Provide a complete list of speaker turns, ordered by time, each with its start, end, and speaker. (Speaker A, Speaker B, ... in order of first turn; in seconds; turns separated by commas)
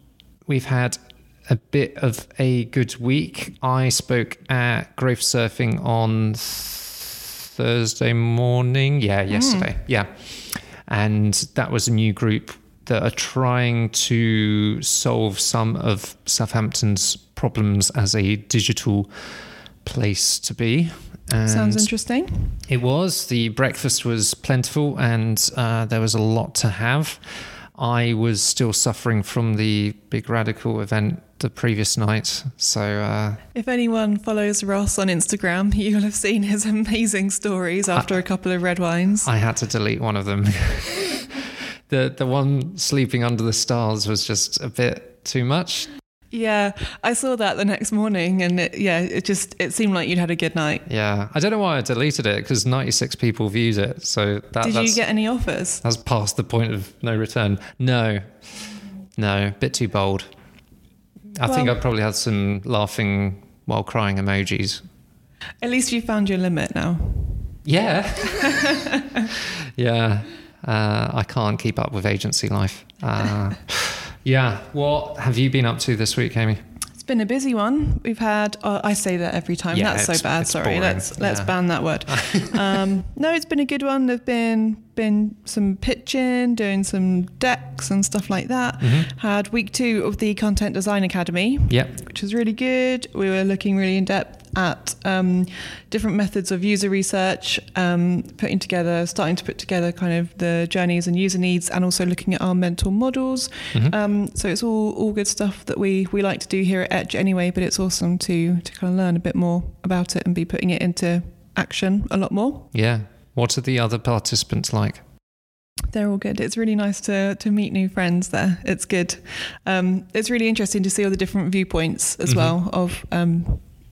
Speaker A: 0.5-19.1, Speaker B: 9.3-9.7, Speaker A: 19.8-21.9, Speaker B: 21.4-22.6, Speaker A: 22.7-27.2, Speaker A: 27.7-33.4, Speaker B: 33.5-39.3, Speaker A: 39.2-45.9, Speaker B: 46.3-50.8, Speaker A: 50.9-55.0, Speaker B: 54.6-55.8, Speaker A: 55.8-58.3, Speaker A: 59.2-60.3, Speaker A: 61.4-64.8, Speaker B: 61.4-61.8, Speaker B: 65.6-67.6, Speaker A: 67.6-76.6, Speaker B: 68.2-69.3, Speaker B: 77.0-112.7, Speaker A: 79.7-81.5, Speaker A: 82.0-82.8, Speaker A: 88.8-89.1, Speaker A: 91.7-91.9, Speaker A: 112.7-115.0, Speaker B: 115.9-123.6, Speaker A: 122.2-122.5